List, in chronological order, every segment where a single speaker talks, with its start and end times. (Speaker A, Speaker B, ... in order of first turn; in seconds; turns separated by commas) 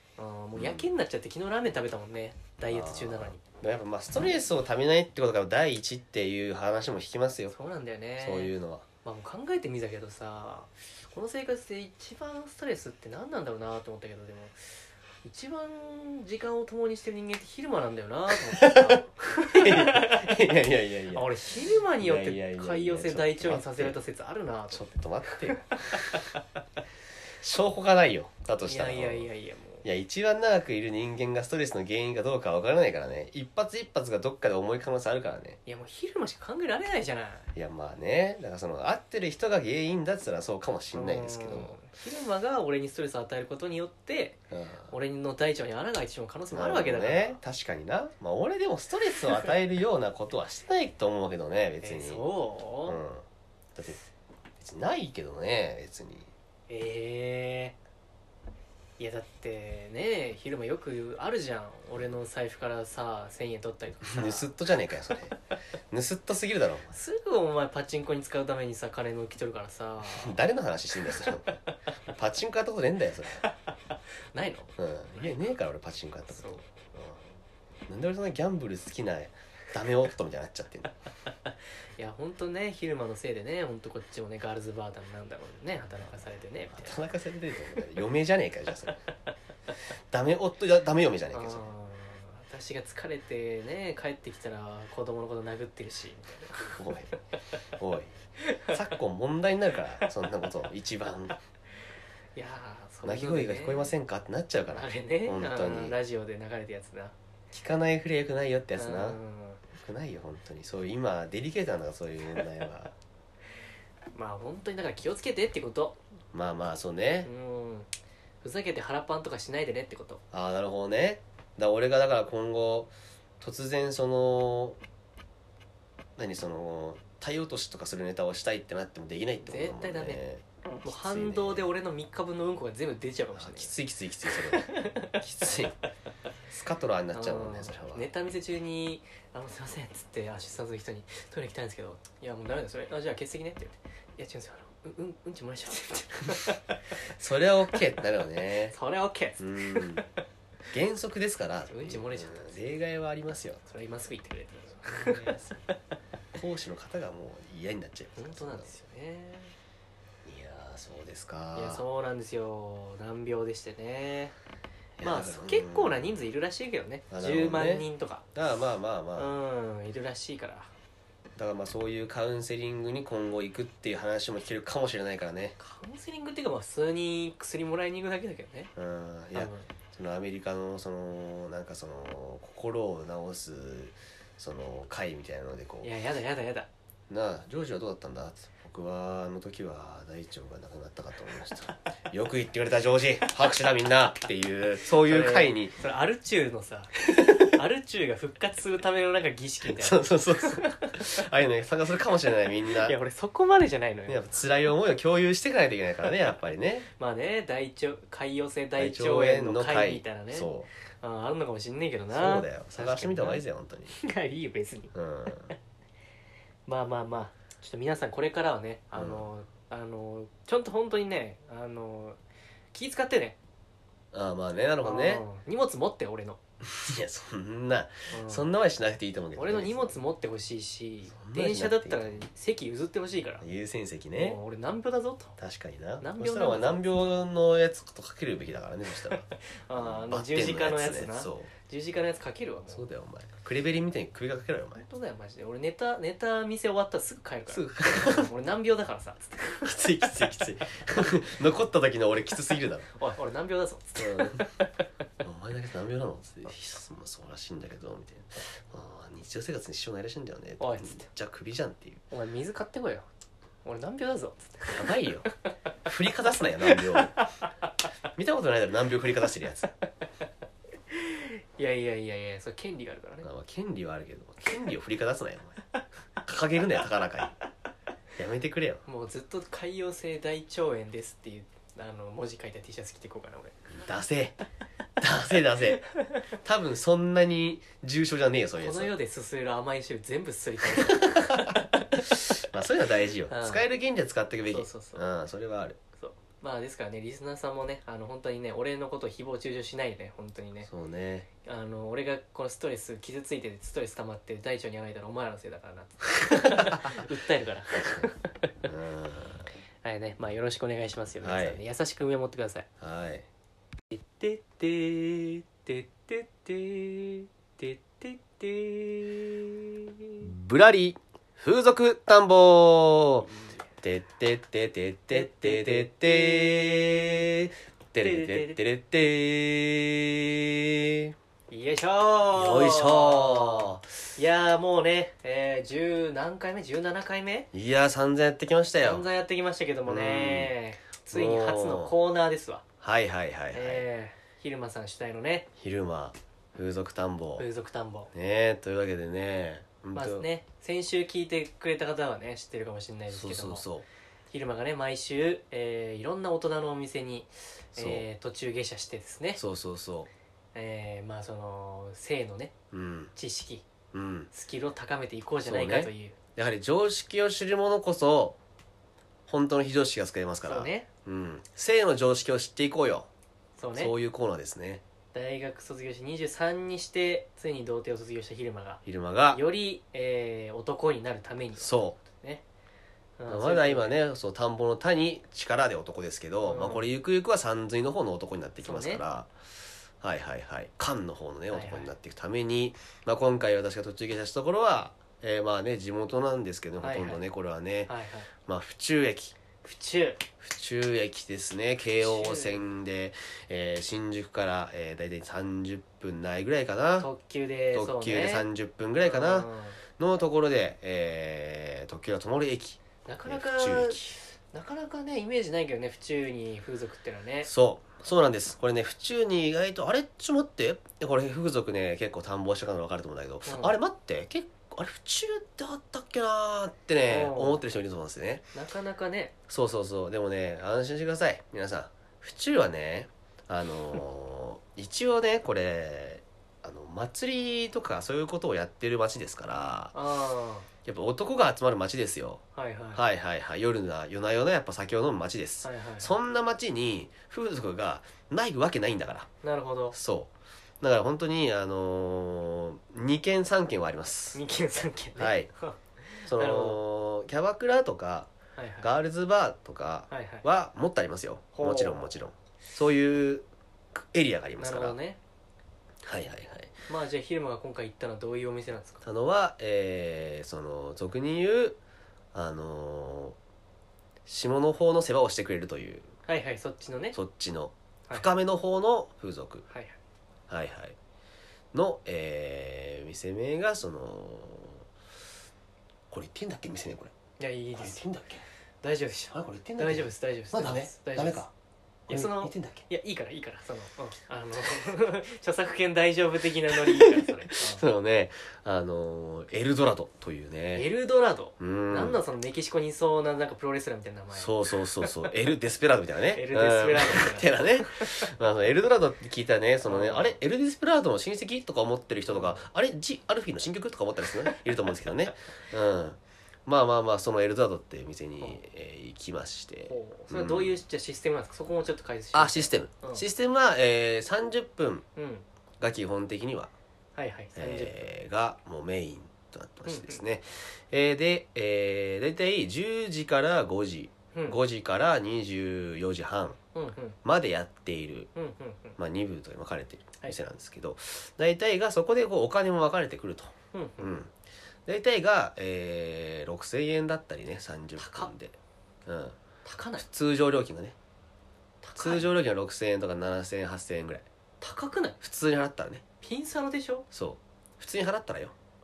Speaker A: 0.2-3.4, Speaker B: 0.5-0.9, Speaker B: 2.7-7.5, Speaker A: 7.5-8.5, Speaker B: 8.2-8.9, Speaker A: 9.0-14.6, Speaker A: 15.2-20.5, Speaker B: 18.3-21.3, Speaker A: 21.1-24.9, Speaker B: 22.0-24.0, Speaker B: 24.7-26.3, Speaker A: 25.4-26.4, Speaker B: 27.4-29.3, Speaker A: 28.6-29.9, Speaker B: 29.8-35.6, Speaker A: 35.6-37.5, Speaker B: 37.5-41.8, Speaker A: 40.9-44.4, Speaker B: 44.5-44.9, Speaker A: 44.9-47.4, Speaker B: 46.5-52.2, Speaker A: 51.8-53.0, Speaker B: 52.9-53.2, Speaker B: 53.7-54.0, Speaker B: 54.6-56.3, Speaker A: 56.7-57.7, Speaker A: 59.0-64.5, Speaker B: 64.0-65.3, Speaker B: 65.9-66.9, Speaker A: 66.9-70.4, Speaker B: 70.0-73.4, Speaker A: 71.1-71.7, Speaker A: 74.3-75.3, Speaker B: 74.8-77.2, Speaker A: 76.3-76.6, Speaker B: 77.9-80.9, Speaker A: 82.0-87.0, Speaker B: 86.7-89.0, Speaker B: 90.1-91.7, Speaker A: 91.3-96.8, Speaker B: 96.8-97.1, Speaker B: 97.8-98.1, Speaker A: 98.4-98.8, Speaker B: 98.7-101.4, Speaker A: 102.3-103.9, Speaker B: 103.0-106.0, Speaker A: 104.7-107.1, Speaker B: 107.5-109.2, Speaker A: 108.8-109.6, Speaker B: 109.7-112.9, Speaker A: 114.1-116.0, Speaker B: 116.3-117.3, Speaker A: 117.2-117.9, Speaker A: 118.4-120.2, Speaker B: 120.3-124.8, Speaker B: 126.2-131.7, Speaker A: 129.4-130.2, Speaker A: 130.8-133.7, Speaker B: 133.3-135.7, Speaker A: 134.2-135.2, Speaker B: 136.5-138.1, Speaker A: 137.1-147.0, Speaker B: 147.1-148.7, Speaker A: 148.7-150.1, Speaker B: 149.4-150.0, Speaker B: 150.7-153.6, Speaker A: 151.7-152.5, Speaker A: 153.7-155.7, Speaker B: 154.9-155.5, Speaker B: 156.3-158.7, Speaker A: 158.2-159.5, Speaker B: 160.2-161.8, Speaker A: 161.5-164.3, Speaker B: 165.0-166.2, Speaker A: 165.0-168.2, Speaker B: 167.1-169.3, Speaker A: 169.2-170.7, Speaker B: 171.3-175.6, Speaker A: 175.6-178.7, Speaker B: 178.8-185.9, Speaker A: 179.3-179.7, Speaker A: 185.8-186.7, Speaker B: 187.1-195.7, Speaker A: 195.0-201.1, Speaker B: 197.1-197.4, Speaker B: 199.7-202.9, Speaker A: 202.8-204.2, Speaker B: 204.1-206.9, Speaker A: 207.0-210.5, Speaker B: 208.8-210.7, Speaker A: 211.0-215.5, Speaker B: 212.1-213.9, Speaker B: 214.9-215.5, Speaker A: 216.7-222.2, Speaker B: 218.9-219.2, Speaker A: 222.7-223.4, Speaker B: 224.1-225.2, Speaker A: 224.8-226.4, Speaker B: 226.6-230.0, Speaker A: 228.1-228.5, Speaker A: 229.3-233.4, Speaker B: 231.1-232.2, Speaker B: 233.4-234.4, Speaker A: 234.1-235.4, Speaker B: 235.4-239.2, Speaker A: 236.0-236.8, Speaker A: 239.3-242.9, Speaker B: 239.8-241.5, Speaker B: 242.7-244.8, Speaker A: 244.8-250.0, Speaker B: 247.5-248.3, Speaker B: 249.6-252.9, Speaker A: 252.9-254.8, Speaker B: 254.0-254.4, Speaker B: 255.2-262.0, Speaker A: 260.6-261.1, Speaker A: 262.1-263.1, Speaker A: 263.6-265.0, Speaker B: 264.7-265.3, Speaker B: 265.8-267.2, Speaker A: 266.6-267.4, Speaker B: 268.1-269.7, Speaker A: 270.9-273.3, Speaker B: 273.2-275.6, Speaker B: 276.2-277.3, Speaker B: 278.2-278.8, Speaker A: 278.9-283.7, Speaker B: 283.7-284.4, Speaker B: 285.0-285.9, Speaker B: 286.4-288.9, Speaker A: 288.6-292.2, Speaker B: 290.7-295.8, Speaker A: 293.3-293.6, Speaker A: 294.5-295.1, Speaker A: 296.0-300.7, Speaker B: 300.7-301.3, Speaker A: 301.4-308.5, Speaker B: 306.6-306.9, Speaker B: 308.6-309.5, Speaker A: 309.8-312.7, Speaker B: 311.2-311.6, Speaker B: 312.8-313.2, Speaker A: 313.9-320.3, Speaker B: 320.2-323.3, Speaker B: 323.8-331.1, Speaker A: 325.1-327.3, Speaker A: 328.0-328.6, Speaker A: 331.5-337.5, Speaker B: 332.3-333.9, Speaker B: 337.5-339.1, Speaker A: 338.8-342.6, Speaker B: 339.9-340.5, Speaker B: 341.1-341.9, Speaker B: 342.8-343.8, Speaker A: 343.5-345.5, Speaker B: 345.6-347.5, Speaker A: 347.4-348.1, Speaker B: 348.1-350.2, Speaker A: 349.9-353.6, Speaker B: 353.1-353.9, Speaker A: 354.3-359.4, Speaker B: 357.8-358.0, Speaker B: 359.4-360.1, Speaker A: 360.5-362.5, Speaker B: 362.7-363.1, Speaker A: 363.1-363.6, Speaker B: 363.9-364.3, Speaker A: 364.3-366.1, Speaker B: 365.4-368.4, Speaker B: 369.3-373.1, Speaker A: 370.4-370.9, Speaker A: 373.6-373.9, Speaker B: 373.7-374.8, Speaker A: 375.1-382.4, Speaker B: 378.9-379.4, Speaker B: 381.6-382.0, Speaker A: 383.2-383.9, Speaker B: 383.3-389.3, Speaker A: 386.4-386.8, Speaker A: 388.6-389.0, Speaker B: 390.0-397.9, Speaker A: 391.5-391.9, Speaker A: 396.8-397.2, Speaker A: 397.9-398.3, Speaker B: 398.4-399.3, Speaker A: 399.6-400.2, Speaker B: 400.4-407.1, Speaker A: 402.0-402.6, Speaker A: 407.0-408.4, Speaker B: 407.7-414.2, Speaker A: 409.0-409.8, Speaker A: 413.1-417.5, Speaker B: 417.4-428.5, Speaker A: 423.4-423.8, Speaker A: 427.1-427.6, Speaker A: 428.5-429.3, Speaker B: 429.5-439.9, Speaker A: 439.9-440.7, Speaker B: 440.8-442.4, Speaker A: 442.5-443.0, Speaker B: 442.9-449.3, Speaker A: 445.6-446.1, Speaker A: 449.4-450.0, Speaker B: 449.9-454.4, Speaker A: 454.3-456.8, Speaker B: 455.2-455.5, Speaker B: 456.2-465.0, Speaker A: 458.6-458.9, Speaker A: 460.1-460.4, Speaker A: 461.5-462.1, Speaker A: 464.6-465.2, Speaker B: 466.0-466.7, Speaker A: 466.9-469.0, Speaker B: 469.0-471.8, Speaker B: 472.3-473.4, Speaker B: 474.2-476.1, Speaker A: 476.2-477.2, Speaker B: 477.1-479.6, Speaker A: 479.7-479.9, Speaker B: 480.5-480.9, Speaker B: 481.7-484.9, Speaker B: 486.1-487.1, Speaker A: 487.4-488.0, Speaker B: 487.7-488.4, Speaker A: 488.8-491.4, Speaker B: 489.3-491.5, Speaker B: 492.1-492.8, Speaker A: 492.1-497.8, Speaker B: 496.7-500.9, Speaker A: 500.7-505.1, Speaker B: 501.6-502.2, Speaker B: 504.3-520.8, Speaker A: 506.3-508.3, Speaker A: 509.8-510.4, Speaker A: 512.3-512.6, Speaker A: 519.9-523.2, Speaker B: 522.3-525.0, Speaker A: 525.1-525.5, Speaker B: 525.8-526.7, Speaker A: 527.1-528.0, Speaker B: 527.5-536.6, Speaker A: 529.9-530.2, Speaker A: 534.3-534.6, Speaker A: 536.7-537.2, Speaker B: 537.2-538.3, Speaker A: 538.3-539.0, Speaker B: 539.0-544.3, Speaker A: 543.7-544.2, Speaker B: 544.9-549.4, Speaker A: 548.0-548.3, Speaker A: 549.6-550.0, Speaker B: 550.0-551.0, Speaker A: 551.8-552.2, Speaker B: 551.9-554.2, Speaker A: 554.6-555.2, Speaker B: 555.2-556.0, Speaker A: 556.2-557.0, Speaker B: 557.1-558.5